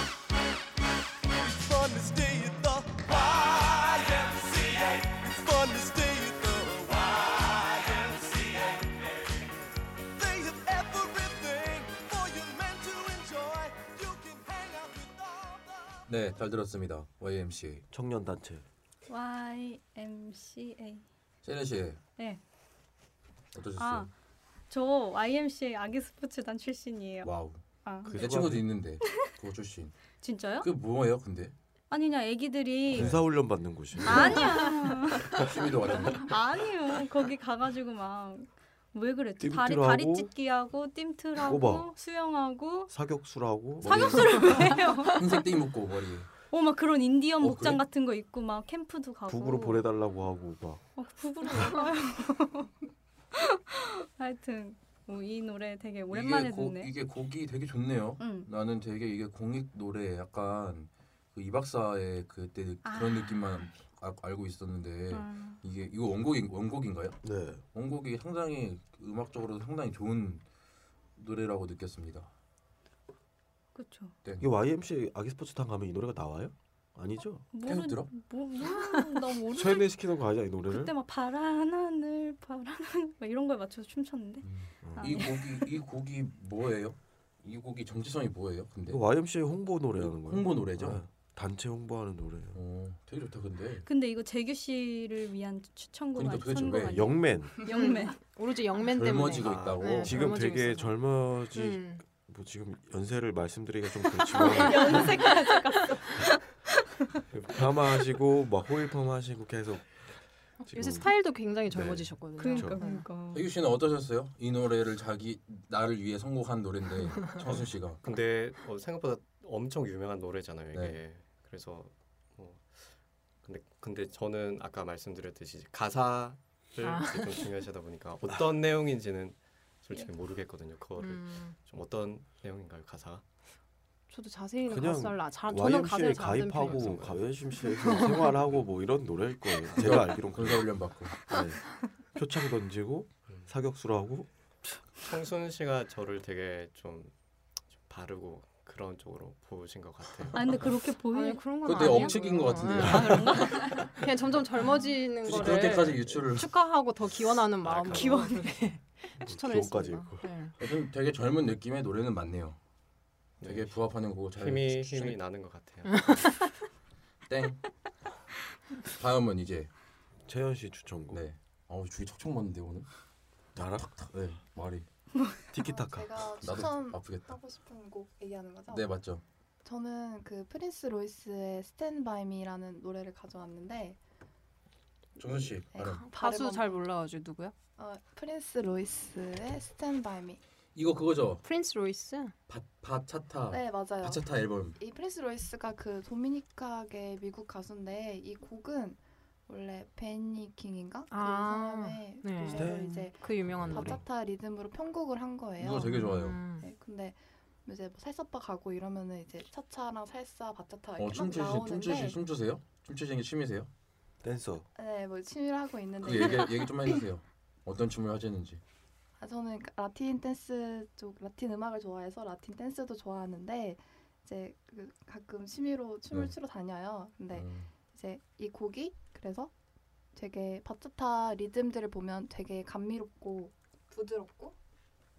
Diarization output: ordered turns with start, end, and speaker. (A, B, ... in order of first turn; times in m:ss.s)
0:01.3-0:09.1 A
0:10.2-0:16.0 A
0:16.1-0:17.9 B
0:17.9-0:18.7 C
0:19.1-0:21.1 D
0:21.4-0:22.0 B
0:23.5-0:24.1 B
0:23.8-0:24.1 D
0:24.7-0:28.2 D
0:27.2-0:30.0 B
0:28.1-0:28.7 C
0:29.0-0:29.3 D
0:30.2-0:30.7 D
0:30.6-0:31.5 B
0:31.9-0:35.4 D
0:32.9-0:34.6 C
0:33.0-0:33.2 B
0:34.0-0:36.4 B
0:36.1-0:42.9 D
0:39.4-0:40.3 C
0:41.4-0:41.9 C
0:42.9-0:44.3 C
0:43.8-0:45.5 D
0:43.8-0:46.3 B
0:46.5-0:49.9 D
0:47.4-0:47.8 B
0:49.3-0:50.8 C
0:51.0-0:52.7 D
0:53.3-0:56.9 D
0:56.1-1:07.2 B
0:58.2-0:58.5 D
1:02.8-1:03.6 D
1:05.1-1:05.6 D
1:07.2-1:07.6 C
1:07.7-1:10.4 B
1:11.2-1:12.3 B
1:13.8-1:14.2 D
1:14.4-1:17.5 C
1:17.5-1:19.9 D
1:17.6-1:18.1 B
1:19.5-1:20.9 C
1:20.6-1:25.7 D
1:24.4-1:29.0 B
1:24.8-1:25.2 C
1:28.9-1:32.6 C
1:30.0-1:31.0 B
1:32.5-1:33.9 B
1:33.8-1:38.2 D
1:36.1-1:37.1 B
1:36.9-1:37.6 C
1:37.7-1:41.0 E
1:38.9-1:40.4 B
1:39.4-1:39.8 F
1:40.0-1:45.4 C
1:41.5-1:42.0 E
1:44.4-1:46.6 D
1:44.5-1:45.5 E
1:47.3-1:51.2 C
1:50.6-1:53.0 E
1:52.3-1:53.5 D
1:52.6-1:52.8 C
1:53.3-1:58.0 B
1:58.0-2:13.2 F
2:00.7-2:01.0 B
2:06.8-2:07.4 E
2:11.0-2:11.6 E
2:14.1-2:17.1 E
2:14.7-2:24.8 C
2:16.6-2:17.3 F
2:17.8-2:18.3 E
2:19.8-2:21.3 B
2:25.0-2:27.1 F
2:27.7-2:30.7 F
2:30.3-2:33.8 D
2:31.1-2:40.6 E
2:31.6-2:33.9 B
2:34.7-2:35.9 D
2:35.2-2:36.5 B
2:37.6-2:38.2 F
2:37.8-2:38.6 D
2:39.2-2:40.3 C
2:40.6-2:42.6 B
2:43.4-2:46.5 F
2:43.4-2:45.2 B
2:46.0-2:46.4 E
2:47.3-2:47.6 B
2:49.0-2:49.7 B
2:50.3-2:51.2 C
2:51.1-2:52.9 B
2:53.6-2:54.1 C
2:53.9-2:54.9 B
2:55.5-2:56.3 C
2:55.6-2:59.0 G
2:56.4-2:57.3 B
2:58.7-2:59.2 B
2:59.6-3:04.0 G
3:05.2-3:06.1 B
3:05.7-3:06.9 G
3:05.8-3:07.5 E
3:07.8-3:10.4 G
3:10.8-3:11.4 B
3:11.4-3:12.3 E
3:12.5-3:14.8 B
3:13.5-3:32.2 G
3:21.1-3:24.0 E
3:22.5-3:23.1 C
3:23.7-3:24.0 C
3:25.6-3:26.5 B
3:25.7-3:26.7 E
3:31.0-3:33.7 B
3:34.2-3:34.7 C
3:34.8-3:37.0 G
3:36.0-3:38.6 B
3:39.2-3:49.5 G
3:46.1-3:46.4 B
3:47.3-3:47.7 B
3:50.1-3:54.6 G